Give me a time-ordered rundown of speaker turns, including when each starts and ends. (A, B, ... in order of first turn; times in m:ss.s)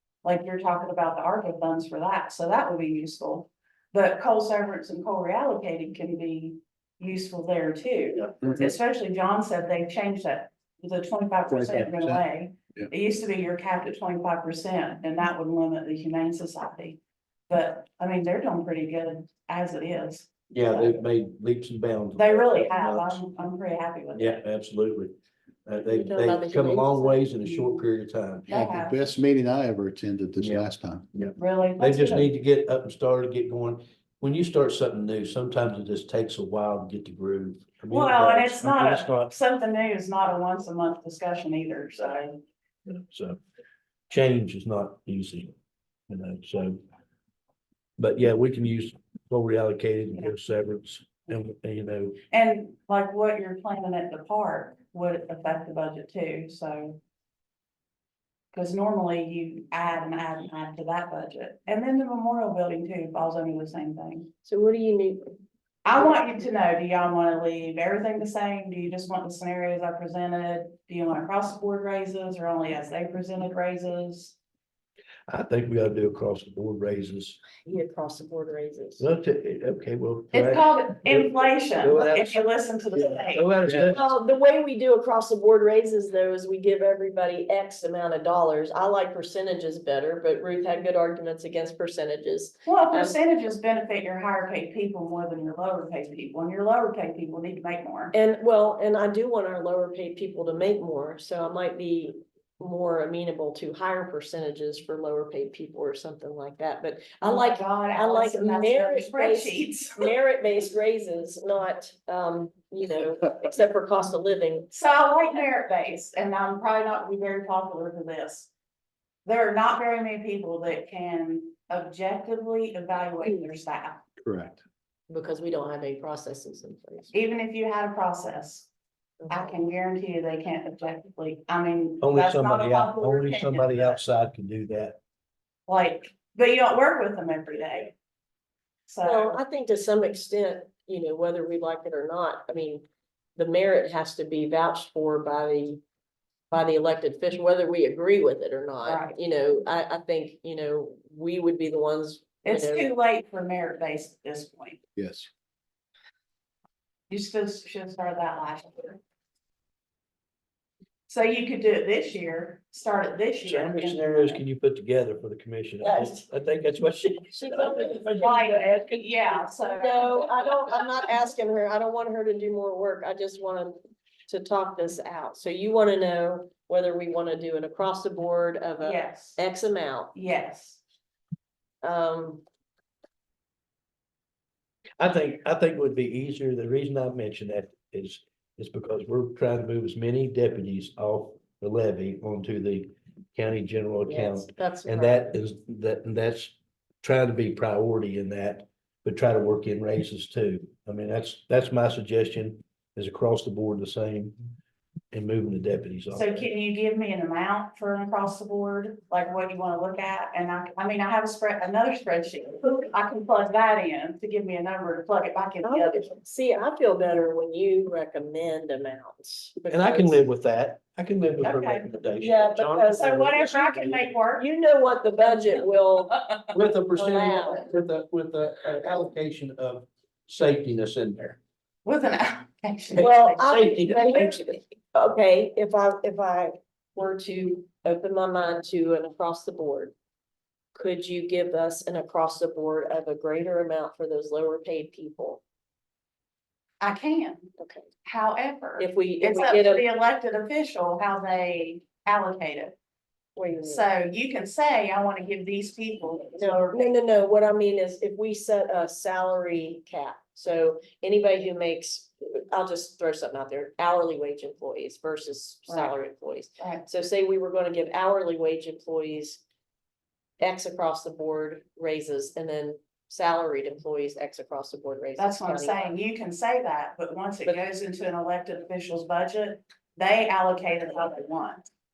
0:00.2-0:21.0 A
0:11.5-0:12.2 B
0:20.5-0:23.2 C
0:22.2-0:24.4 A
0:24.1-0:25.2 C
0:25.7-0:28.5 C
0:25.9-0:27.2 D
0:27.4-0:27.8 A
0:28.5-0:29.0 A
0:28.5-0:31.1 B
0:30.4-0:39.3 C
0:31.4-0:32.3 A
0:37.9-0:42.4 A
0:42.9-0:43.4 C
0:44.1-0:45.5 C
0:46.1-0:46.8 C
0:48.0-0:52.2 C
0:52.3-0:57.0 A
0:58.5-1:04.3 A
1:04.4-1:05.3 D
1:05.8-1:14.4 A
1:15.3-1:17.4 C
1:17.6-1:19.1 D
1:19.0-1:22.5 C
1:20.3-1:23.5 A
1:23.3-1:24.1 C
1:23.9-1:33.2 D
1:32.7-1:38.1 A
1:38.1-1:54.7 D
1:47.2-1:50.1 A
1:54.7-1:58.5 A
1:59.2-2:04.0 A
2:04.2-2:04.6 B
2:05.1-2:07.1 D
2:07.1-2:08.7 A
2:09.2-2:09.6 D
2:09.3-2:14.0 A
2:12.0-2:15.0 C
2:15.7-2:18.0 A
2:18.9-2:19.4 A
2:19.0-2:22.8 D
2:23.4-2:25.8 D
2:26.5-2:32.9 D
2:28.8-2:29.2 A
2:32.4-2:34.8 A
2:35.0-2:35.3 B
2:37.1-2:39.0 A
2:41.1-2:44.4 A
2:43.4-2:49.0 C
2:45.8-2:46.2 D
2:47.3-2:48.1 D
2:48.0-2:50.1 A
2:49.8-3:00.1 D
2:58.8-2:59.4 A
3:00.1-3:00.8 A
3:01.8-3:02.4 D
3:05.0-3:24.4 C
3:14.1-3:15.2 D
3:25.1-3:26.5 C
3:26.1-3:36.1 A
3:35.6-3:40.2 D
3:39.7-3:44.1 C
3:41.4-3:41.9 A
3:42.2-3:43.2 D
3:42.9-3:44.5 A
3:44.4-3:46.1 D
3:46.1-3:46.5 A
3:46.5-3:51.4 C
3:46.9-3:47.6 D
3:51.8-3:53.5 A
3:52.9-3:54.4 C
3:53.0-3:59.9 D
4:00.8-4:05.4 D
4:06.8-4:07.5 A
4:07.6-4:07.9 D
4:08.0-4:12.7 A
4:08.8-4:09.9 D
4:13.4-4:13.8 D
4:13.6-4:17.0 A
4:16.4-4:29.4 D
4:25.7-4:26.0 A
4:26.6-4:26.8 A
4:30.4-4:35.9 D
4:35.2-4:41.7 A